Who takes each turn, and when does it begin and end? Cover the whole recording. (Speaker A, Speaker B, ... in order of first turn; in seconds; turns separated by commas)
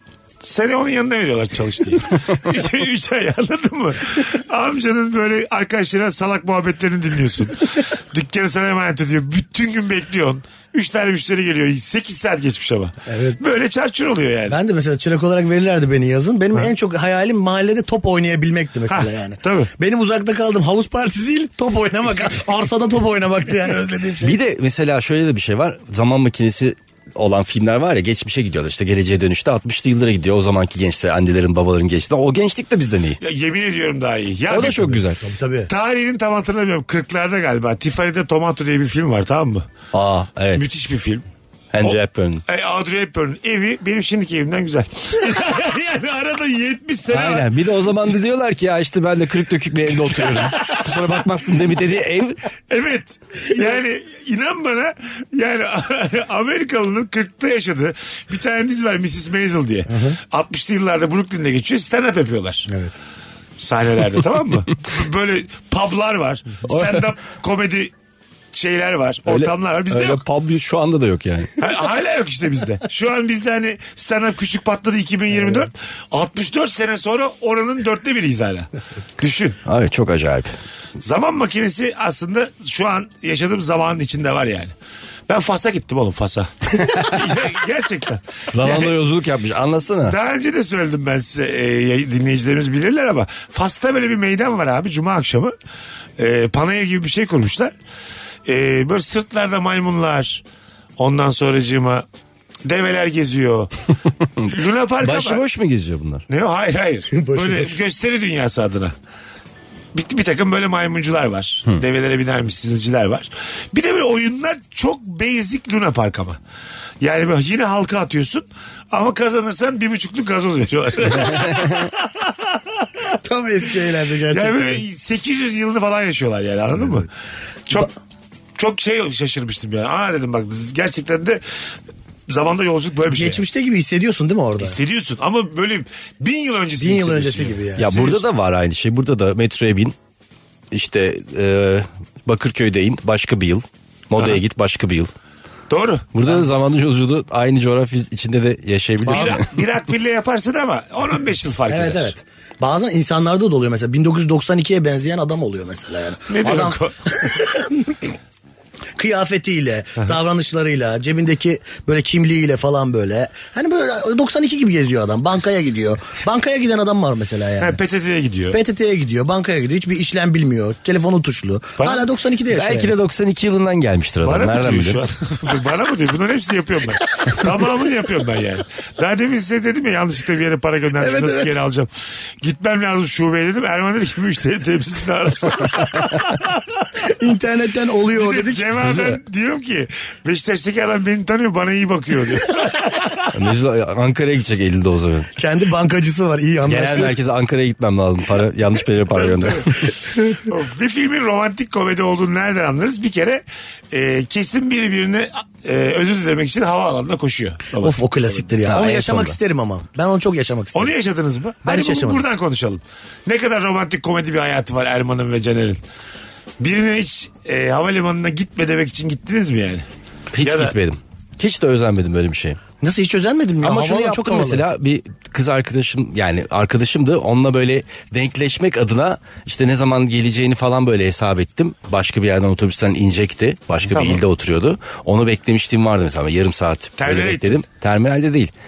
Speaker A: 0.4-14.6, Speaker B: 13.1-13.4, Speaker B: 14.5-24.4, Speaker A: 18.9-19.7, Speaker C: 24.2-33.2, Speaker A: 33.2-35.0, Speaker C: 34.5-35.2, Speaker B: 35.2-35.7, Speaker A: 35.7-39.7, Speaker C: 39.9-40.7, Speaker A: 40.5-41.2, Speaker C: 41.7-42.4, Speaker A: 41.8-47.5, Speaker C: 47.1-52.4, Speaker A: 50.0-51.1, Speaker A: 52.7-62.7, Speaker B: 59.9-60.2, Speaker B: 62.7-62.9, Speaker A: 63.6-67.9, Speaker C: 66.7-67.0, Speaker A: 68.5-70.2, Speaker C: 69.3-71.6, Speaker A: 71.6-79.6, Speaker C: 79.6-80.5, Speaker A: 81.0-84.7, Speaker A: 85.3-88.9, Speaker C: 86.8-87.2, Speaker C: 88.5-90.2, Speaker A: 90.0-95.5, Speaker A: 96.2-97.7, Speaker A: 98.5-100.4, Speaker A: 101.0-102.0, Speaker A: 102.6-103.7, Speaker C: 104.4-106.2, Speaker A: 104.5-105.4, Speaker A: 106.3-108.9, Speaker B: 107.1-107.8, Speaker A: 109.9-116.4, Speaker A: 117.0-123.1, Speaker B: 123.2-124.8, Speaker A: 124.3-127.1, Speaker A: 128.6-131.4, Speaker A: 132.3-133.4, Speaker B: 133.1-134.8, Speaker A: 134.6-138.2, Speaker B: 136.8-138.2, Speaker C: 137.8-139.9, Speaker C: 140.7-145.1, Speaker A: 145.7-146.2, Speaker C: 146.1-149.5, Speaker A: 149.1-152.1, Speaker B: 151.7-158.1, Speaker A: 156.3-157.2, Speaker B: 159.0-167.8, Speaker A: 167.6-168.6, Speaker B: 168.5-172.9, Speaker A: 171.8-172.1, Speaker C: 172.5-175.0, Speaker A: 174.2-181.9, Speaker B: 181.0-181.6, Speaker A: 182.4-187.0, Speaker B: 187.0-189.1, Speaker A: 188.1-193.3, Speaker C: 193.3-195.3, Speaker B: 195.3-197.1, Speaker C: 196.6-199.9, Speaker A: 199.2-208.0, Speaker B: 207.8-210.9, Speaker C: 208.7-209.4, Speaker A: 210.7-215.8, Speaker B: 211.6-212.2, Speaker A: 216.6-219.8, Speaker C: 220.3-222.6, Speaker A: 220.4-220.7, Speaker B: 222.8-224.6, Speaker C: 223.6-238.5, Speaker A: 233.9-234.2, Speaker A: 237.0-237.6